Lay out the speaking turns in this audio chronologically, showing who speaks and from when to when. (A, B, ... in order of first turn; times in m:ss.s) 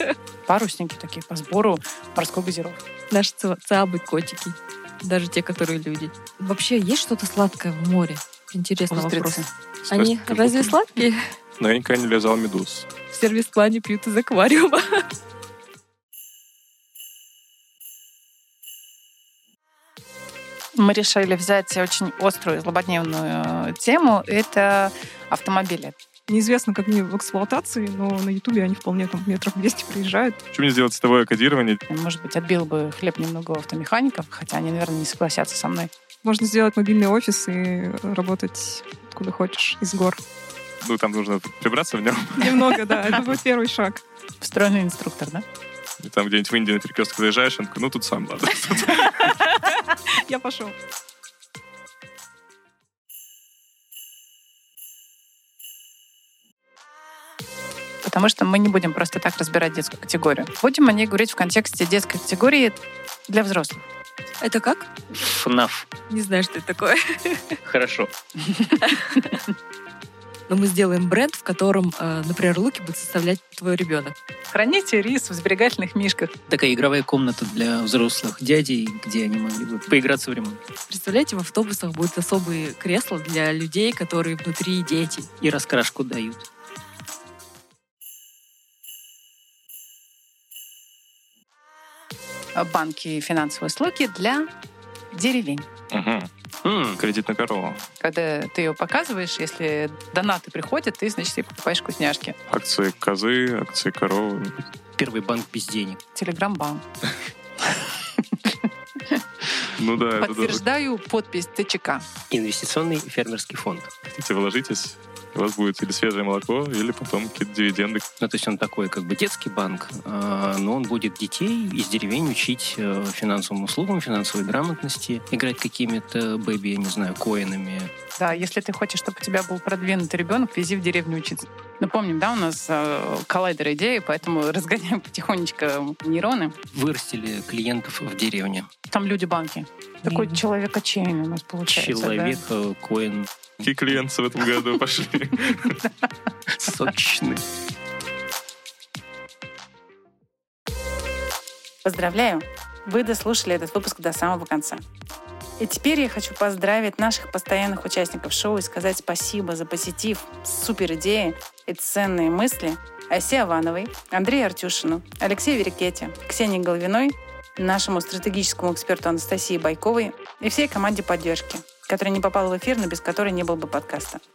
0:00.5-0:02.7 A
0:03.1-0:04.5 B
0:05.0-0:09.4 B
0:08.9-0:09.4 A
0:08.9-0:09.4 C
0:09.8-0:10.8 D
0:09.9-0:11.1 B
0:11.6-0:12.9 D
0:13.1-0:14.8 B
0:20.8-0:25.9 A
0:26.3-0:30.4 E
0:30.5-0:31.8 D
0:31.9-0:35.9 A
0:36.2-0:40.2 E
0:40.8-0:42.6 D
0:42.4-0:44.0 E
0:44.4-0:45.4 A
0:46.0-0:49.2 D
0:49.0-0:50.7 E
0:58.0-1:02.8 A
1:03.3-1:03.8 A
1:04.5-1:04.8 B
1:05.2-1:05.8 F
1:06.1-1:07.4 B
1:07.7-1:08.1 F
1:10.5-1:14.1 B
1:14.5-1:16.2 A
1:16.5-1:20.6 F
1:20.9-1:25.2 B
1:25.4-1:26.4 F
1:32.7-1:34.2 A
1:33.4-1:34.0 C
1:35.9-1:36.3 D
1:36.6-1:37.0 F
1:37.0-1:37.8 D
1:38.0-1:42.3 A
1:42.5-1:44.7 D
1:45.0-1:46.0 F
1:46.2-1:46.8 A
1:49.8-1:50.6 D
1:50.2-1:50.8 C
1:50.2-1:51.9 A
1:52.3-1:53.9 F
1:54.0-1:58.0 D
1:58.2-2:07.9 F
2:08.2-2:11.3 A
2:11.8-2:16.4 A
2:16.7-2:18.7 F
2:18.9-2:22.4 A
2:20.1-2:20.4 C
2:21.7-2:23.3 F
2:23.6-2:25.8 D
2:26.5-2:27.4 F
2:31.8-2:34.8 C
2:35.6-2:54.2 C